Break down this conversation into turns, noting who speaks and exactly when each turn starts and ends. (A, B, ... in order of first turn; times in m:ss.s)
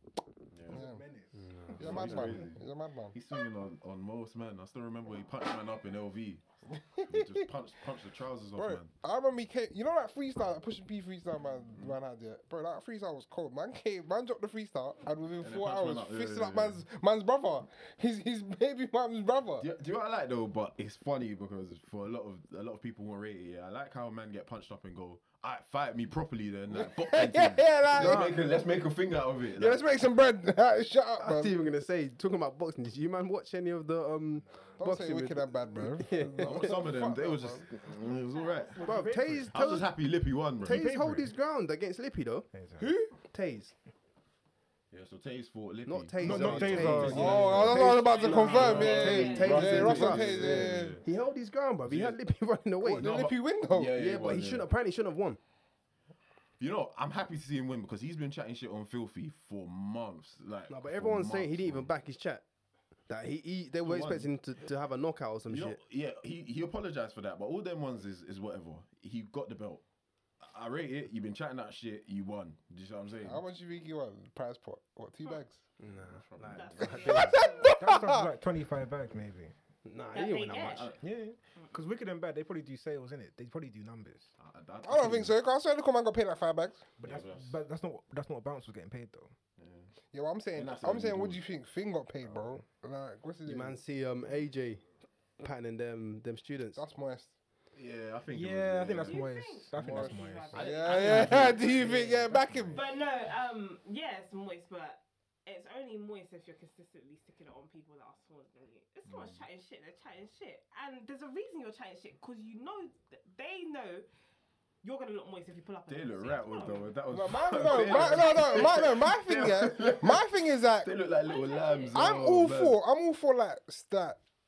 0:00.5-0:00.8 A
0:00.7-0:01.0 B
0:00.7-0:01.8 C
0:01.4-0:02.4 D
0:01.8-0:06.4 A
0:01.8-0:03.2 B
0:06.7-0:07.5 B
0:07.0-0:08.9 A
0:08.6-0:19.6 B
0:15.4-0:16.8 A
0:19.6-0:29.8 A
0:26.7-0:28.5 B
0:29.6-0:31.5 B
0:31.2-0:36.8 D
0:34.8-0:37.7 B
0:36.4-0:38.9 A
0:38.8-0:39.5 C
0:38.8-0:39.9 D
0:39.4-0:40.8 A
0:40.6-0:42.5 D
0:40.6-0:41.3 C
0:42.5-0:42.9 C
0:42.8-0:43.1 B
0:43.2-0:43.7 D
0:44.9-0:51.1 A
0:45.8-0:53.3 D
0:46.2-0:47.8 C
0:47.0-0:51.0 B
0:47.9-0:50.0 E
0:51.8-0:52.2 A
0:52.8-0:54.0 B
0:53.0-0:54.7 A
0:53.9-0:55.4 D
0:56.6-1:01.9 A
1:00.7-1:02.4 D
1:03.1-1:05.8 D
1:03.8-1:04.3 A
1:05.5-1:09.8 A
1:10.4-1:13.4 A
1:13.2-1:15.6 B
1:15.8-1:17.4 D
1:15.9-1:17.3 A
1:16.5-1:17.7 E
1:17.0-1:18.3 B
1:17.6-1:19.5 C
1:19.8-1:20.9 D
1:20.1-1:20.9 E
1:20.6-1:21.0 A
1:21.0-1:24.3 C
1:24.4-1:25.3 A
1:24.8-1:26.9 B
1:27.0-1:29.3 C
1:27.0-1:27.6 A
1:29.6-1:29.9 A
1:30.1-1:33.8 B
1:30.5-1:31.4 A
1:33.4-1:34.8 D
1:35.4-1:36.8 D
1:36.7-1:37.3 B
1:37.7-1:39.2 A
1:38.3-1:42.7 C
1:39.0-1:41.7 E
1:39.7-1:42.8 B
1:40.5-1:42.8 A
1:42.7-1:54.0 E
1:49.0-1:49.4 A
1:54.8-1:56.9 E
1:55.9-2:02.8 A
1:57.1-2:00.9 B
1:57.5-1:58.7 E
2:01.2-2:02.0 E
2:01.9-2:04.2 B